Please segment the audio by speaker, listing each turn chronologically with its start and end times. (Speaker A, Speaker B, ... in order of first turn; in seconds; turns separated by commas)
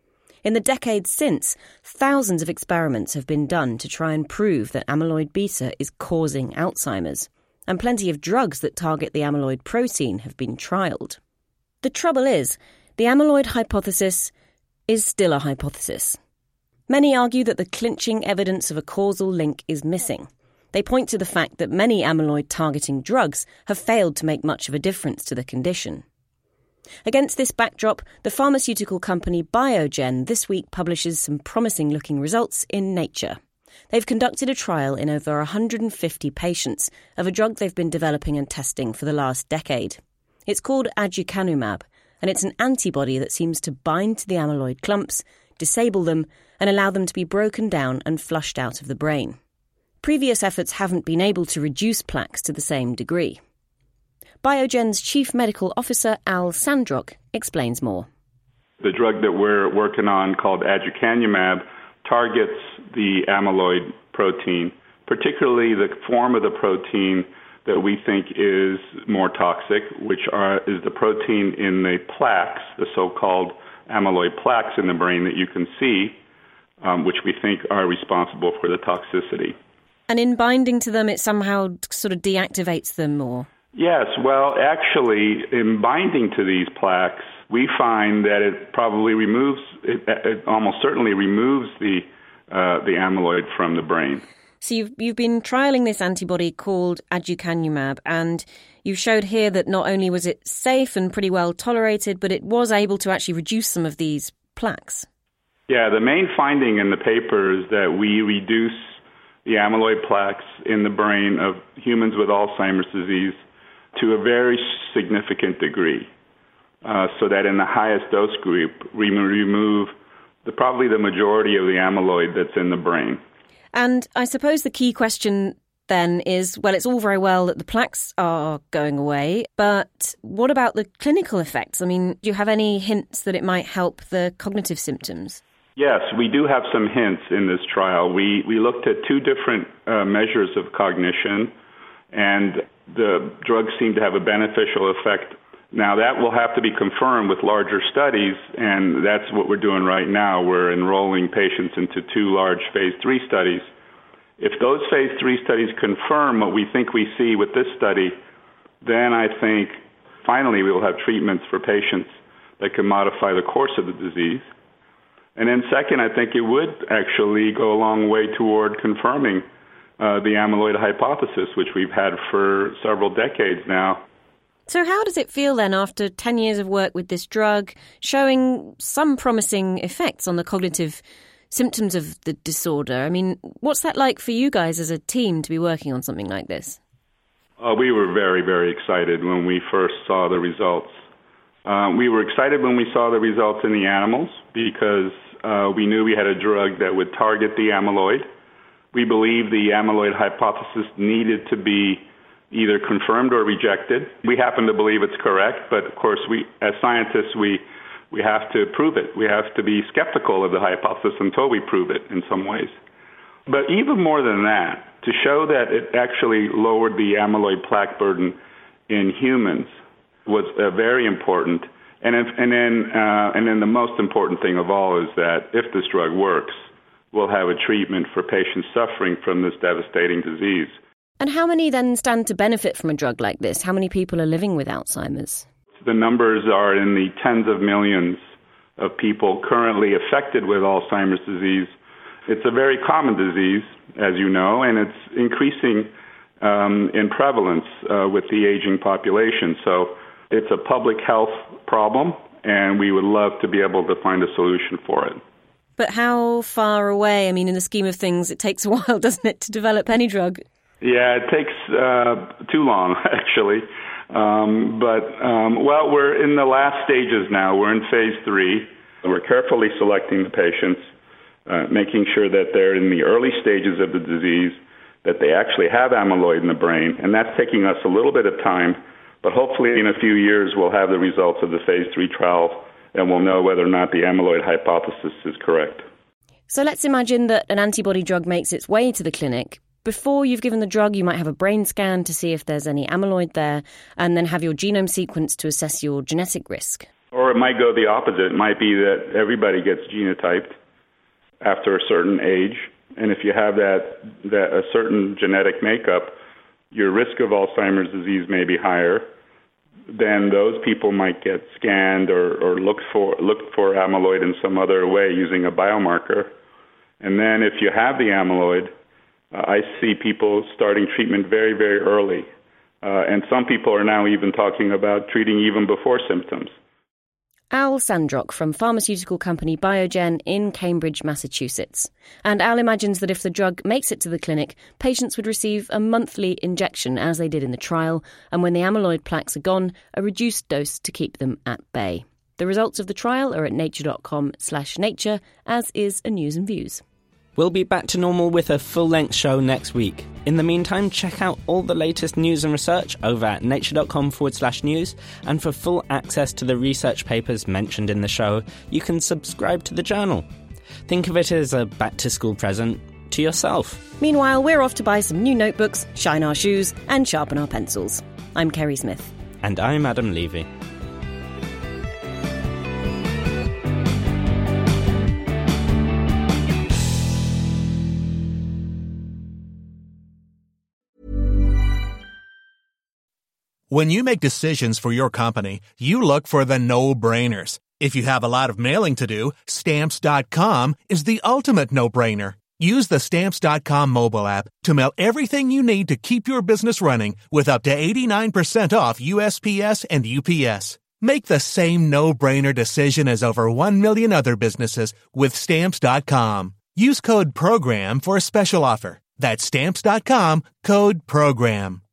Speaker A: 0.4-11.2, Speaker A: 11.8-14.3, Speaker A: 14.9-16.2, Speaker A: 16.9-26.0, Speaker A: 27.1-33.4, Speaker A: 33.9-49.4, Speaker A: 50.0-53.4, Speaker A: 54.4-58.1, Speaker B: 58.8-76.2, Speaker B: 76.8-79.6, Speaker A: 80.1-83.5, Speaker B: 83.8-94.2, Speaker A: 94.6-105.1, Speaker B: 105.7-113.4, Speaker B: 114.0-116.1, Speaker B: 116.8-123.2, Speaker A: 123.7-135.4, Speaker B: 135.8-141.5, Speaker B: 142.1-153.7, Speaker B: 154.4-158.2, Speaker B: 158.8-164.5, Speaker B: 165.4-169.4, Speaker B: 170.0-174.1, Speaker A: 174.7-186.8, Speaker B: 187.6-191.0, Speaker B: 191.7-198.3, Speaker B: 198.9-212.8, Speaker B: 213.5-218.4, Speaker B: 218.9-219.8, Speaker B: 220.3-230.8, Speaker A: 231.2-235.5, Speaker B: 235.8-238.2, Speaker B: 238.8-241.7, Speaker B: 242.3-255.2, Speaker A: 255.8-260.4, Speaker B: 260.8-270.8, Speaker B: 271.5-285.9, Speaker A: 286.5-296.9, Speaker B: 297.1-300.6, Speaker B: 301.4-306.1, Speaker B: 306.7-309.1, Speaker B: 309.9-316.3, Speaker B: 317.0-318.7, Speaker B: 319.3-322.3, Speaker B: 322.8-326.5, Speaker A: 327.5-346.8, Speaker C: 347.4-360.3, Speaker C: 360.9-363.9, Speaker A: 364.0-369.1, Speaker C: 369.4-370.5, Speaker D: 383.7-411.8